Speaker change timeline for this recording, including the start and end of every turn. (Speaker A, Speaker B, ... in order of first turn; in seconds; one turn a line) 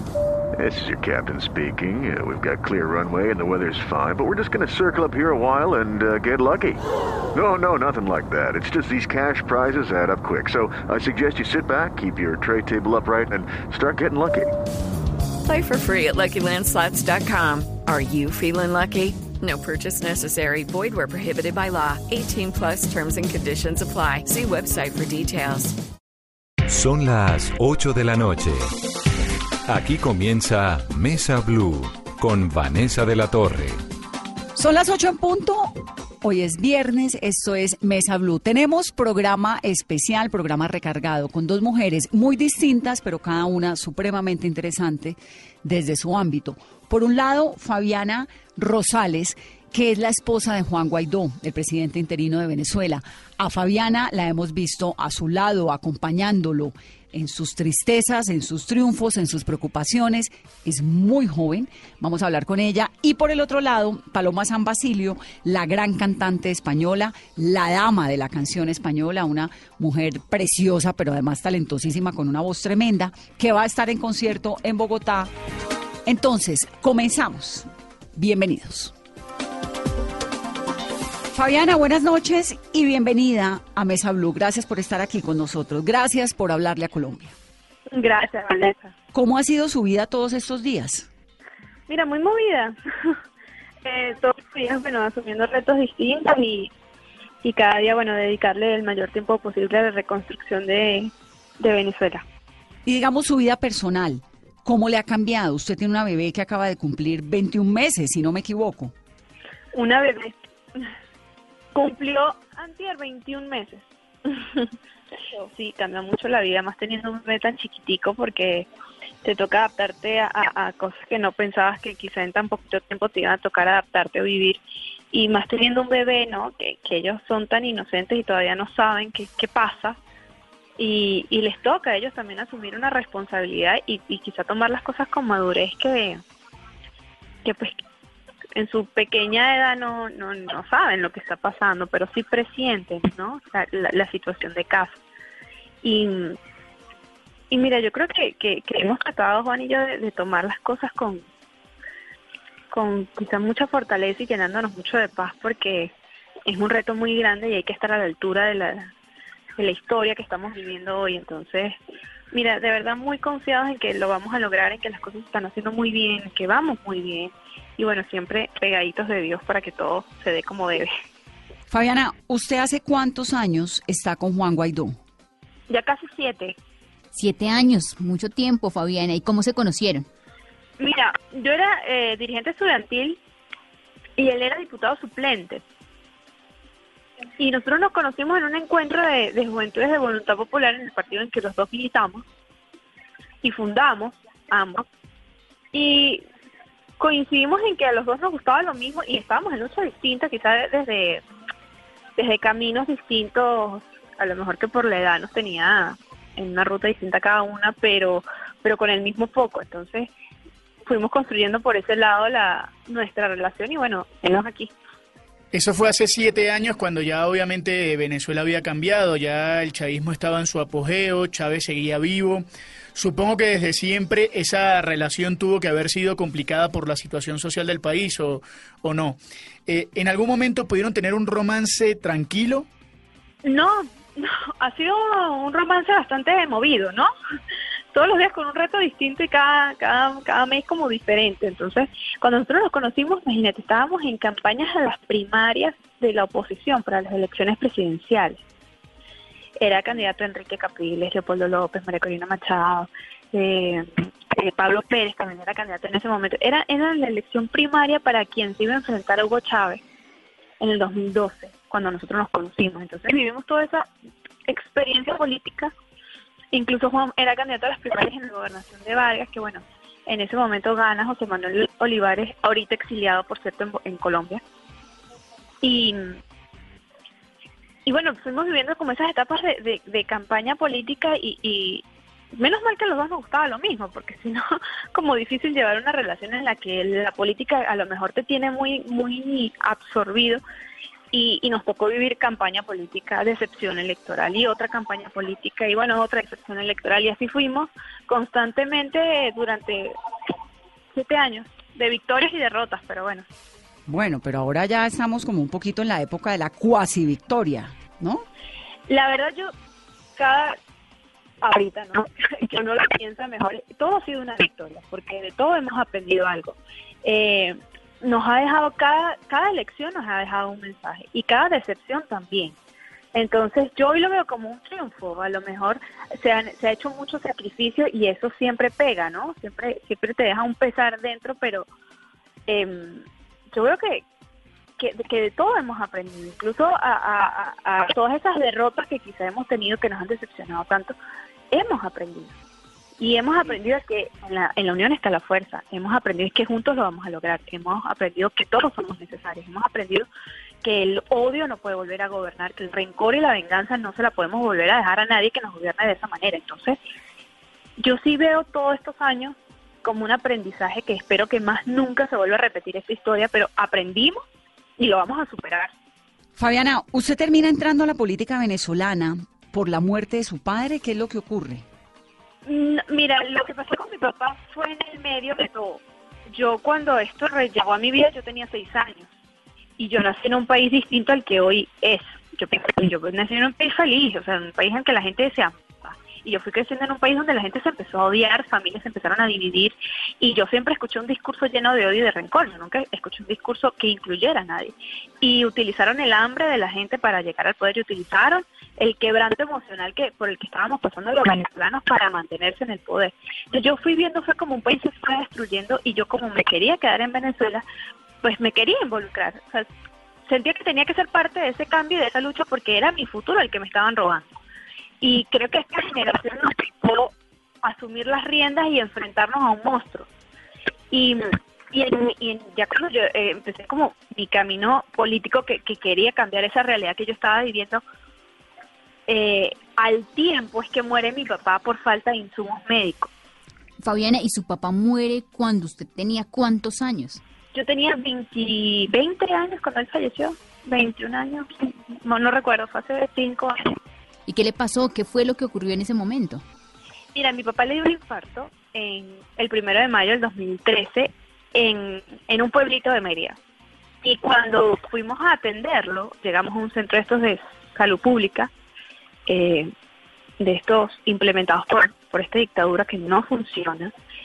Speaker A: 0.6-6.8
Speaker A: 7.3-14.5
Speaker B: 15.4-25.7
Speaker C: 26.7-28.7
Speaker C: 29.7-33.8
Speaker D: 34.5-75.3
Speaker D: 76.0-78.9
Speaker D: 81.3-87.3
Speaker E: 87.9-88.9
Speaker D: 89.1-91.1
Speaker E: 91.9-93.2
Speaker E: 93.8-96.7
Speaker E: 97.4-102.2
Speaker D: 102.8-108.9
Speaker E: 109.7-110.9
Speaker E: 111.7-114.7
Speaker E: 115.3-118.7
Speaker E: 119.2-124.6
Speaker E: 125.1-130.0
Speaker E: 130.8-136.2
Speaker E: 137.4-137.7
Speaker E: 138.5-145.0
Speaker E: 145.8-146.4
Speaker E: 147.5-151.2
Speaker E: 152.7-155.9
Speaker E: 156.5-158.9
Speaker E: 159.6-161.8
Speaker E: 162.3-170.9
Speaker D: 171.7-175.0
Speaker E: 175.7-176.6
Speaker F: 177.1-180.1
Speaker E: 180.8-183.2
Speaker E: 184.2-185.6
Speaker E: 187.4-192.2
Speaker E: 193.4-194.8
Speaker E: 195.7-196.2
Speaker E: 197.0-201.2
Speaker E: 202.2-210.1
Speaker E: 210.8-214.7
Speaker G: 215.5-232.7
Speaker E: 233.4-237.1
Speaker E: 237.9-248.4
Speaker E: 249.6-259.8
Speaker E: 260.6-263.9
Speaker E: 264.5-265.7
Speaker E: 266.5-274.4
Speaker E: 275.6-276.2
Speaker E: 277.9-290.4
Speaker E: 291.1-299.9
Speaker E: 300.9-303.2
Speaker D: 303.9-308.2
Speaker E: 308.9-309.5
Speaker E: 310.2-310.6
Speaker E: 311.4-322.6
Speaker E: 323.1-331.7
Speaker E: 332.5-334.0
Speaker E: 334.8-340.9
Speaker E: 341.5-342.3
Speaker E: 343.0-350.1
Speaker E: 350.6-356.8
Speaker E: 357.8-364.2
Speaker E: 364.8-365.7
Speaker D: 366.4-371.6
Speaker E: 372.4-379.1
Speaker E: 379.8-407.6
Speaker E: 408.2-409.7
Speaker E: 410.3-414.3
Speaker E: 415.0-417.1
Speaker E: 417.6-420.1
Speaker E: 420.9-427.8
Speaker E: 429.1-433.1
Speaker F: 433.8-437.2
Speaker E: 437.5-443.8
Speaker F: 444.3-446.4
Speaker E: 447.1-453.4
Speaker E: 454.0-458.5
Speaker E: 459.3-459.7
Speaker E: 460.4-463.9